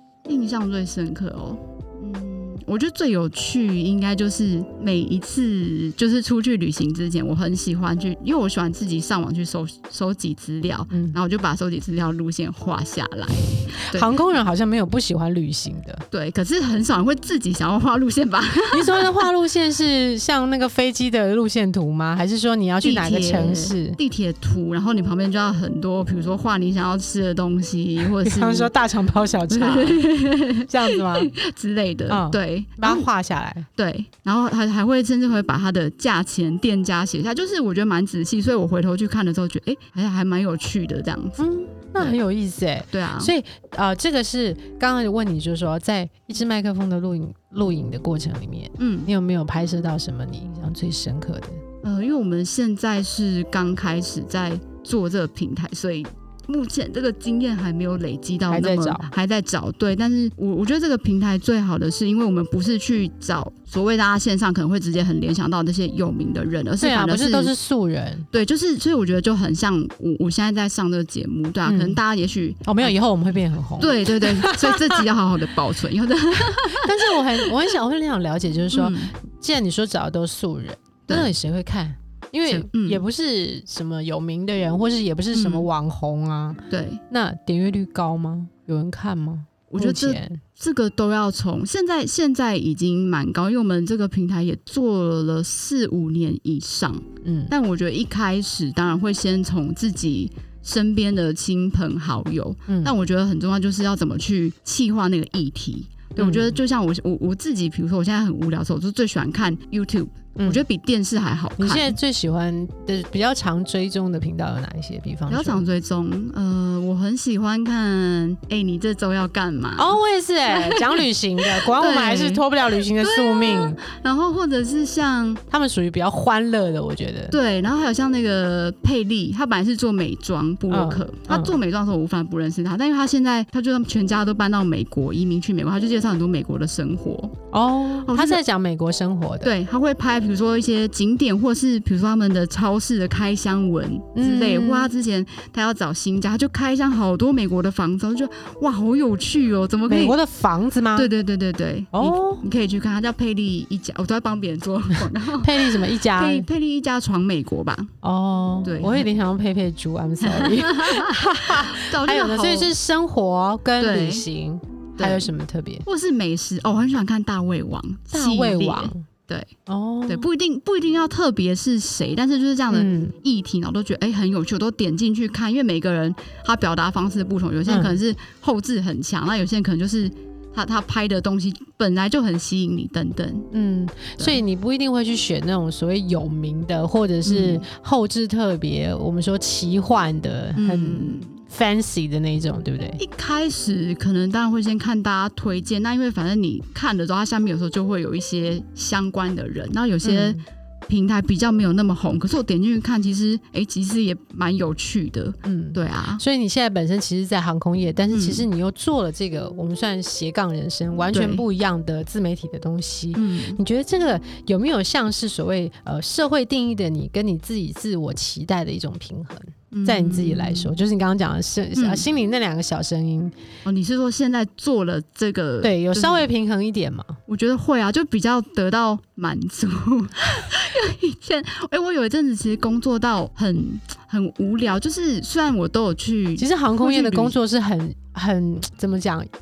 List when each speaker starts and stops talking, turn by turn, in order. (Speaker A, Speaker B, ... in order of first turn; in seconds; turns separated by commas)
Speaker A: 0.3-14.1, Speaker B: 10.9-11.2, Speaker B: 13.9-16.0, Speaker A: 16.1-19.3, Speaker B: 18.7-24.0, Speaker A: 22.8-28.7, Speaker B: 28.2-30.0, Speaker A: 29.5-33.1, Speaker B: 30.7-31.3, Speaker B: 32.1-33.7, Speaker A: 33.8-41.4, Speaker B: 41.4-51.6, Speaker A: 42.9-43.3, Speaker A: 48.8-49.1, Speaker A: 51.8-67.5, Speaker B: 58.5-59.1, Speaker B: 66.8-68.3, Speaker A: 68.3-73.0, Speaker B: 71.6-72.0, Speaker B: 72.6-75.0, Speaker A: 73.8-77.4, Speaker B: 76.8-90.4, Speaker A: 78.7-79.1, Speaker A: 81.1-81.3, Speaker A: 82.5-83.0, Speaker A: 85.3-85.7, Speaker A: 86.7-87.0, Speaker A: 89.7-112.0, Speaker B: 97.2-97.5, Speaker B: 102.7-102.9, Speaker B: 106.2-106.6, Speaker B: 111.6-115.7, Speaker A: 115.3-119.9, Speaker B: 119.8-123.8, Speaker A: 120.5-125.4, Speaker B: 125.5-127.4, Speaker A: 127.3-137.3, Speaker B: 130.7-131.6, Speaker B: 137.5-139.5, Speaker A: 138.0-138.4, Speaker A: 139.4-150.2, Speaker B: 144.1-144.9, Speaker B: 149.9-151.1, Speaker A: 150.9-157.9, Speaker B: 151.9-152.4, Speaker B: 155.4-156.5, Speaker B: 158.0-165.8, Speaker A: 158.6-159.1, Speaker A: 160.2-162.7, Speaker A: 163.8-164.2, Speaker A: 165.0-165.3, Speaker A: 165.8-169.5, Speaker B: 168.1-169.0, Speaker B: 169.7-170.3, Speaker A: 170.1-183.5, Speaker B: 172.7-173.2, Speaker B: 177.7-178.0, Speaker B: 183.5-193.0, Speaker A: 187.2-187.6, Speaker A: 190.6-191.4, Speaker A: 193.0-206.2, Speaker B: 200.0-200.4, Speaker B: 205.4-223.3, Speaker A: 208.1-208.4, Speaker A: 211.1-211.4, Speaker A: 213.1-213.6, Speaker A: 219.7-220.7, Speaker A: 221.7-222.1, Speaker A: 223.6-226.3, Speaker B: 225.6-227.2, Speaker A: 227.3-237.3, Speaker B: 236.4-239.3